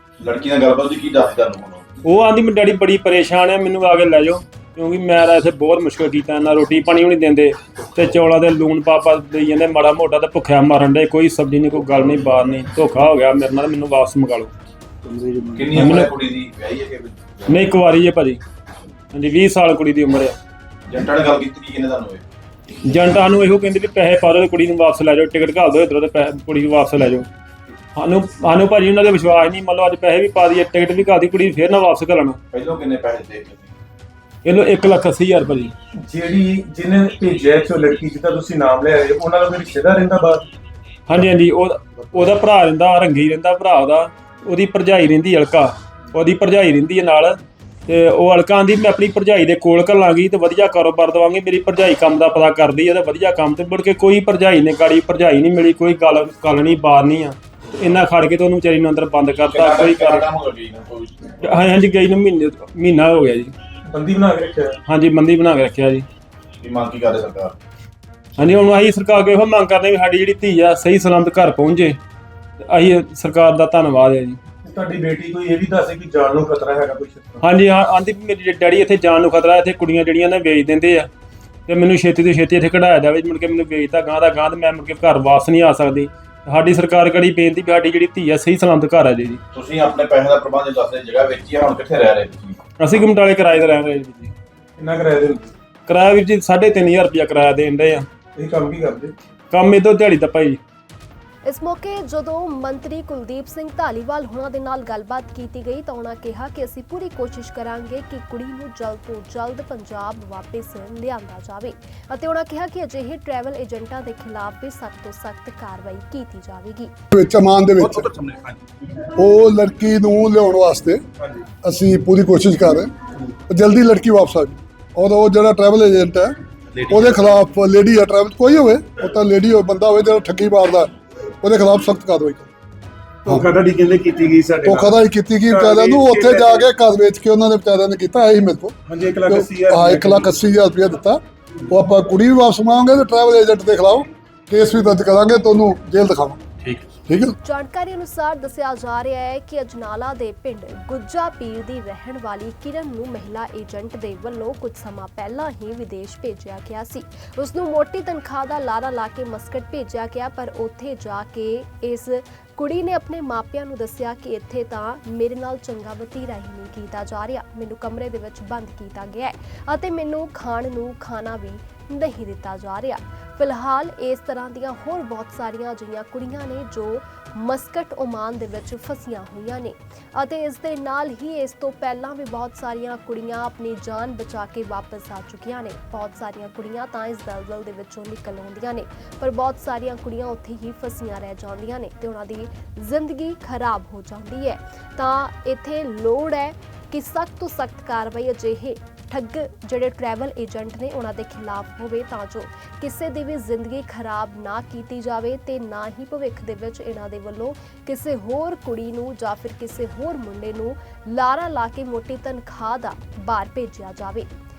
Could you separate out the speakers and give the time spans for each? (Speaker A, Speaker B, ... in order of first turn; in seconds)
Speaker A: 0.2-1.9, 15.5-17.7, 20.9-22.2, 32.5-33.7, 59.5-61.3, 66.6-67.5, 89.5-92.6, 117.8-118.6, 126.8-127.1
Speaker B: 2.0-14.5, 15.7-16.1, 17.5-18.4, 19.1-20.4, 22.8-27.3, 27.9-32.4, 34.4-35.7, 41.1-60.3, 61.4-63.5, 64.9-66.0, 68.4-72.0, 72.7-74.4, 77.4-81.1, 81.7-89.4, 92.8-94.3, 95.9-98.1, 99.5-100.6
Speaker C: 15.0-15.6, 36.0-40.5, 63.9-64.8, 74.6-77.4, 94.8-95.5, 98.3-99.1, 133.2-134.9, 135.4-136.7, 138.9-140.3
Speaker D: 101.4-116.9, 147.4-214.3
Speaker E: 117.1-118.1, 119.1-121.0, 121.6-122.9, 123.5-126.3, 126.9-130.9, 131.4-132.5, 134.6-138.7, 139.3-146.4, 147.1-147.3